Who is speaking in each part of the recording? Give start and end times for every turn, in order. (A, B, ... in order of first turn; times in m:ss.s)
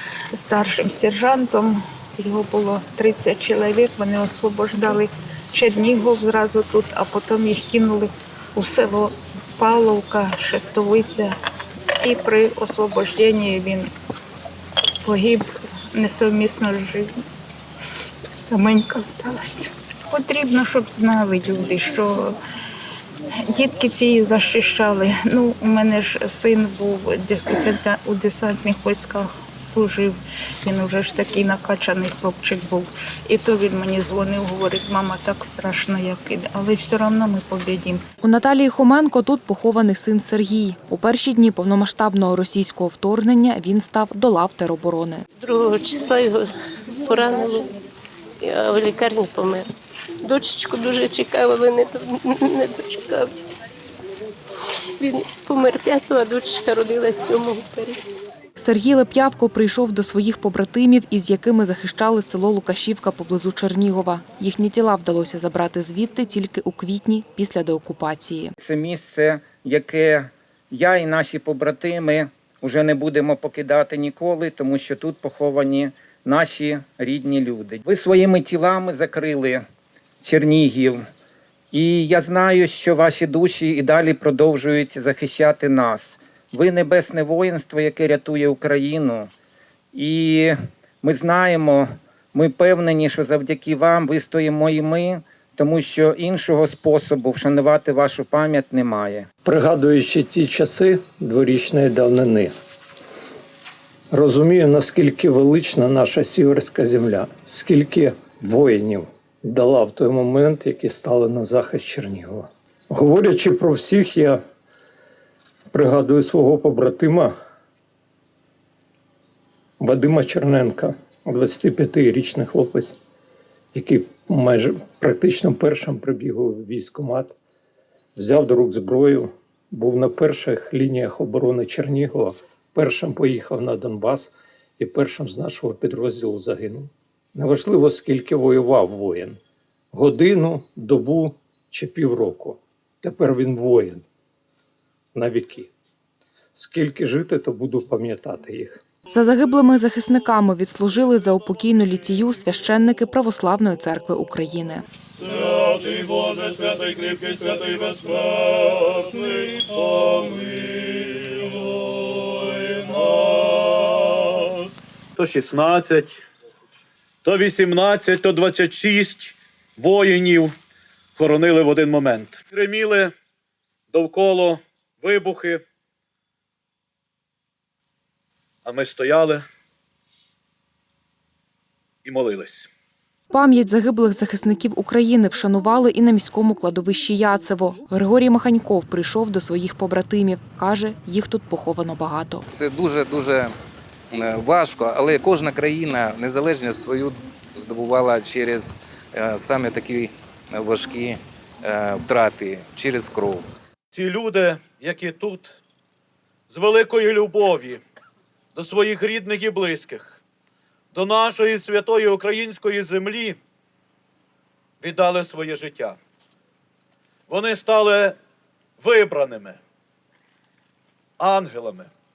0:00.3-0:11.3 A
0:12.0-0:13.9 A
0:15.0-0:17.2 A
0:18.4-0:22.4 A
0:23.4-0:38.0 A
0:38.2-0:45.2 B
0:45.4-0:46.4 C
0:47.0-0:47.7 C
0:48.4-0:49.7 C
0:50.2-0:53.3 C
0:55.0-0:58.1 C
0:58.6-1:08.5 B
1:08.6-1:19.6 D
1:20.2-1:21.0 D
1:21.7-1:29.3 D
1:29.9-1:39.3 D
1:39.4-1:42.6 E
1:44.1-1:54.4 E
1:55.7-1:57.3 E
1:59.8-2:03.0 E
2:03.8-2:07.4 E
2:08.2-2:19.4 E
2:19.9-2:24.0 E
2:25.1-2:25.7 E
2:26.6-2:28.8 E
2:29.1-2:34.8 B
2:35.2-2:44.5 F
2:45.2-2:46.2 F
2:47.2-2:50.5 F
2:51.2-2:53.1 F
2:53.9-2:55.6 F
2:58.6-2:59.4 F
3:02.0-3:02.7 F
3:03.3-3:12.4 B
3:12.5-3:13.6 G
3:14.1-3:23.5 G
3:23.9-3:25.6 F
3:26.5-3:27.8 F
3:28.6-3:30.2 F
3:30.9-3:33.4 F
3:34.8-3:36.0 F
3:37.3-3:38.2 F
3:38.8-3:39.6 F
3:41.2-3:41.9 F